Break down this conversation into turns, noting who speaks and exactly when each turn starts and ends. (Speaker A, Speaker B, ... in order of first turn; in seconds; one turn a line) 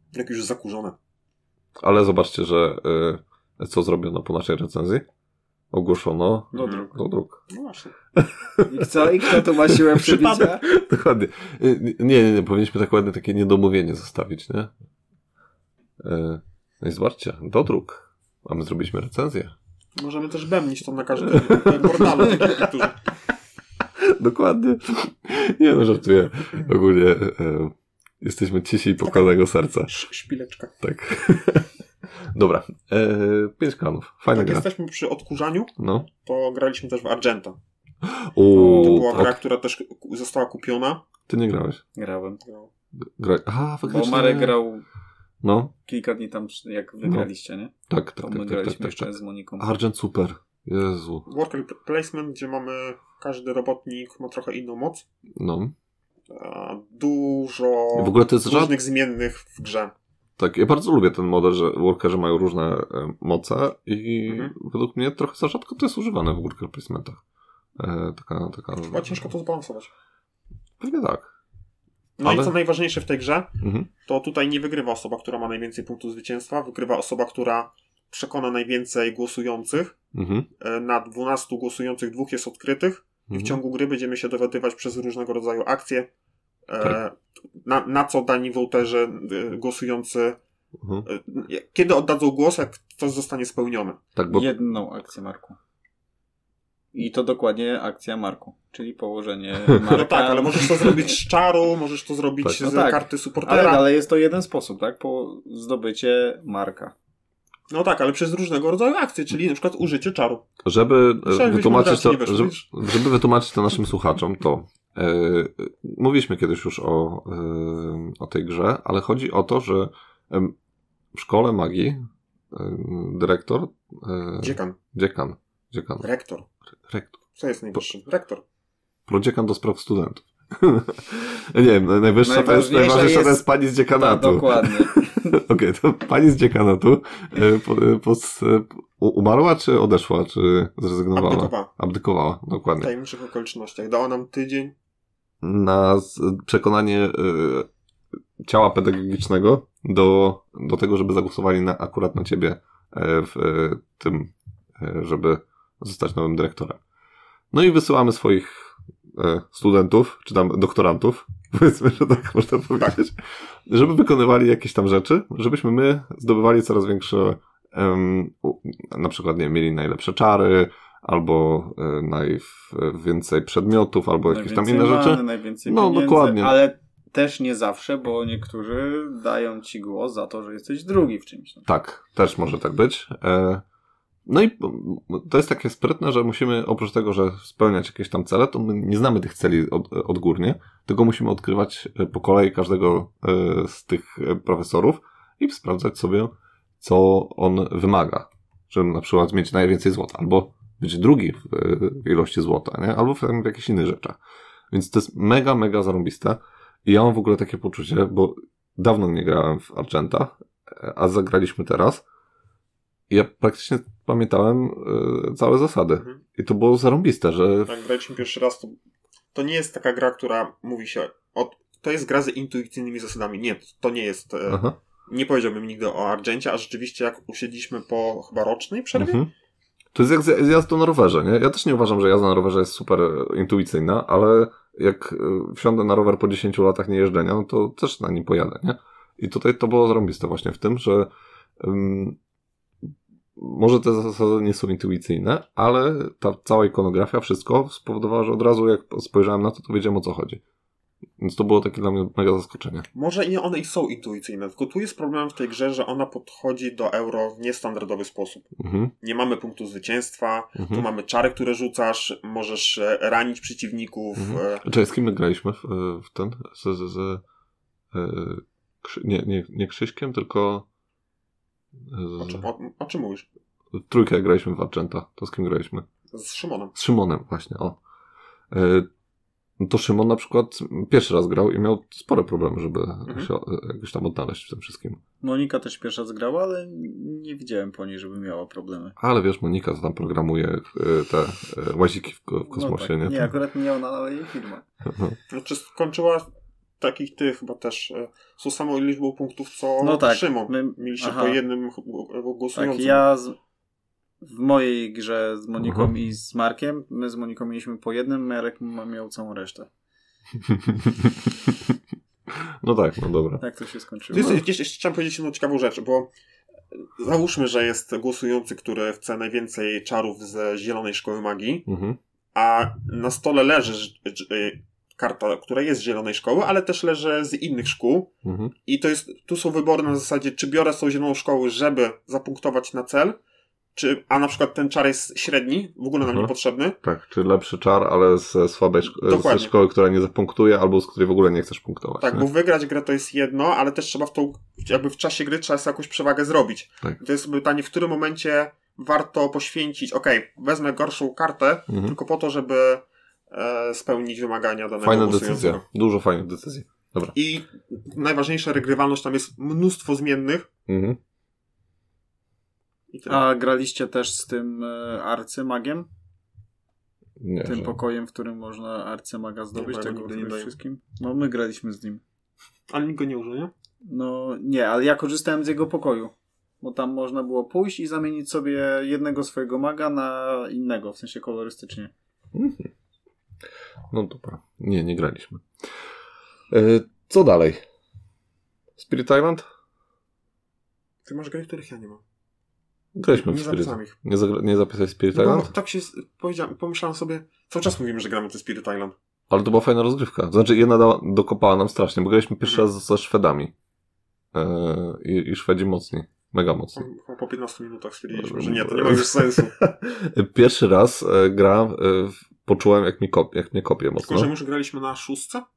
Speaker A: 0.1-0.9
Speaker B: 1.8-5.0
Speaker B: 5.7-7.4
Speaker C: 6.5-6.9
Speaker A: 6.5-6.9
Speaker A: 7.5-7.9
Speaker B: 8.2-14.7
Speaker C: 8.7-10.6
Speaker B: 16.0-19.5
Speaker A: 20.0-23.0
Speaker B: 21.2-22.7
Speaker B: 24.0-29.9
Speaker A: 29.0-29.3
Speaker A: 29.9-30.7
Speaker B: 30.8-31.7
Speaker B: 32.3-34.6
Speaker A: 34.3-35.7
Speaker B: 35.8-36.1
Speaker A: 36.2-37.6
Speaker B: 38.0-39.4
Speaker C: 38.5-39.1
Speaker A: 38.7-41.0
Speaker B: 41.3-41.8
Speaker C: 42.0-42.4
Speaker A: 42.4-42.7
Speaker B: 43.0-44.5
Speaker C: 43.9-44.8
Speaker B: 45.4-45.7
Speaker C: 45.9-49.7
Speaker B: 47.9-51.2
Speaker A: 51.3-55.0
Speaker B: 55.4-55.7
Speaker A: 56.3-59.9
Speaker B: 57.9-58.7
Speaker B: 60.4-67.2
Speaker A: 64.3-64.5
Speaker B: 67.8-69.3
Speaker A: 68.9-69.9
Speaker B: 70.8-71.3
Speaker A: 72.2-73.5
Speaker B: 72.2-72.5
Speaker B: 73.6-73.9
Speaker A: 74.0-79.9
Speaker B: 80.1-80.5
Speaker A: 80.6-86.1
Speaker B: 83.3-83.6
Speaker A: 86.7-90.4
Speaker B: 90.8-91.0
Speaker A: 91.0-94.0
Speaker B: 94.2-94.5
Speaker C: 94.3-95.6
Speaker C: 96.9-101.0
Speaker A: 99.9-103.9
Speaker C: 102.5-106.9
Speaker A: 107.7-110.4
Speaker B: 110.6-120.5
Speaker A: 111.2-112.6
Speaker B: 121.1-122.0
Speaker B: 122.5-126.0
Speaker A: 124.4-124.8
Speaker A: 126.0-126.5
Speaker B: 126.9-127.2
Speaker A: 127.4-128.4
Speaker B: 129.1-142.9
Speaker C: 132.2-135.4
Speaker A: 141.1-141.7
Speaker A: 142.8-144.7
Speaker B: 145.4-147.7
Speaker B: 148.4-156.8
Speaker B: 157.5-176.6
Speaker C: 174.3-181.7
Speaker B: 181.7-183.6
Speaker B: 184.2-204.2
Speaker B: 204.7-212.0
Speaker B: 213.1-217.7
Speaker A: 217.7-218.8
Speaker A: 219.3-229.2
Speaker B: 224.5-224.8
Speaker B: 228.9-229.3
Speaker B: 229.9-242.2
Speaker B: 243.4-250.4
Speaker B: 251.2-252.8
Speaker A: 252.9-264.6
Speaker B: 258.6-258.9
Speaker B: 260.6-260.9
Speaker B: 264.2-267.2
Speaker B: 267.9-270.6
Speaker B: 271.9-272.4
Speaker A: 272.2-273.2
Speaker B: 273.7-275.9
Speaker A: 276.1-276.7
Speaker B: 276.7-277.8
Speaker B: 278.5-278.9
Speaker B: 279.6-285.0
Speaker C: 285.2-288.9
Speaker B: 289.0-293.3
Speaker C: 292.5-294.6
Speaker B: 294.9-295.2
Speaker A: 295.3-296.3
Speaker A: 296.8-303.0
Speaker C: 299.8-301.4
Speaker C: 302.5-303.4
Speaker C: 304.2-309.7
Speaker B: 305.6-305.9
Speaker B: 310.6-311.6
Speaker B: 312.3-313.4
Speaker C: 313.4-314.4
Speaker A: 314.1-316.1
Speaker B: 314.1-314.4
Speaker A: 316.7-321.7
Speaker B: 321.7-322.0
Speaker A: 322.3-328.1
Speaker B: 328.2-328.5
Speaker A: 328.6-333.2
Speaker A: 333.8-336.8
Speaker B: 336.0-336.3
Speaker B: 336.8-342.3
Speaker A: 339.0-339.5
Speaker A: 342.0-355.6
Speaker B: 351.7-351.9
Speaker B: 354.8-357.1
Speaker A: 357.1-360.5
Speaker B: 360.7-361.0
Speaker A: 362.9-363.2
Speaker C: 363.1-365.9
Speaker B: 367.2-367.7
Speaker C: 367.4-372.0
Speaker A: 369.5-370.5
Speaker A: 372.7-373.5
Speaker C: 373.8-381.9
Speaker B: 382.3-382.7
Speaker B: 383.9-385.4
Speaker B: 386.5-387.6
Speaker B: 388.8-389.4
Speaker A: 391.1-392.0
Speaker B: 392.9-395.5
Speaker A: 393.1-393.9
Speaker A: 395.1-398.9
Speaker B: 399.3-403.5
Speaker B: 404.3-406.9
Speaker A: 406.8-409.5
Speaker B: 408.1-414.3
Speaker A: 414.0-415.4